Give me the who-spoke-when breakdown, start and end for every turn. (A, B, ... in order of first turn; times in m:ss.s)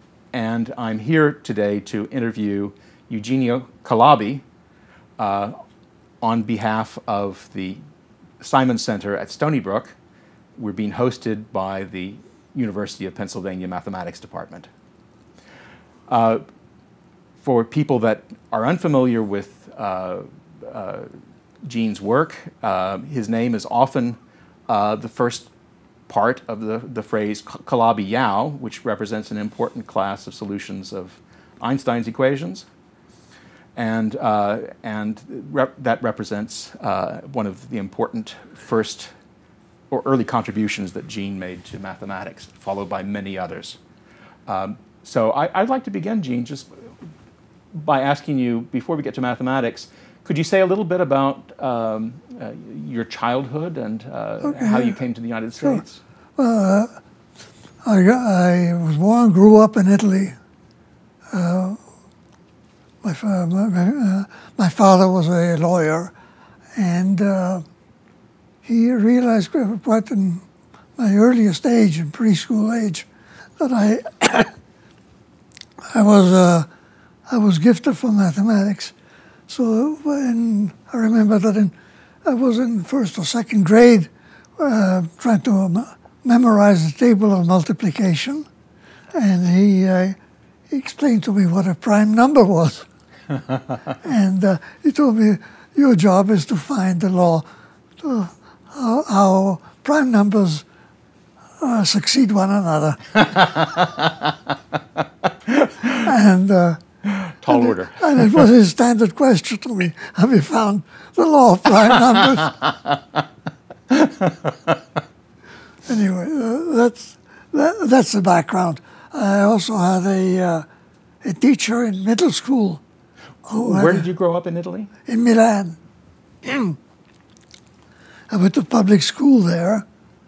0:00.3-0:04.4 A
0:05.2-0:05.5 A
0:06.2-0:07.8 A
0:08.4-0:10.0 A
0:10.6-0:14.7 A
0:16.1-0:16.4 A
0:17.4-0:21.1 A
0:21.6-0:24.2 A
0:24.7-0:25.5 A
0:26.1-0:32.7 A
0:33.8-0:39.1 A
0:39.9-0:43.8 A
0:44.5-0:46.7 A
0:47.7-0:56.0 A
0:54.4-0:55.0 B
0:56.4-0:56.9 B
0:57.8-1:00.4 B
1:01.3-1:01.8 B
1:03.0-1:06.1 B
1:06.8-1:07.6 B
1:08.6-1:10.4 B
1:11.0-1:13.1 B
1:13.6-1:14.5 B
1:15.9-1:16.7 B
1:17.3-1:18.9 B
1:19.5-1:28.5 B
1:29.1-1:30.2 B
1:30.7-1:32.9 B
1:34.0-1:37.5 B
1:38.0-1:40.6 B
1:41.6-1:43.1 B
1:43.2-1:44.3 A
1:45.5-1:46.0 A
1:46.0-1:46.8 B
1:47.1-1:48.4 A
1:47.5-1:52.5 B
1:52.5-1:52.9 A
1:53.9-1:54.8 A
1:55.9-2:00.6 B
2:01.2-2:02.8 B
2:03.5-2:04.1 B
2:03.6-2:04.9 A
2:05.1-2:05.8 B
2:06.4-2:06.8 B
2:08.3-2:09.8 B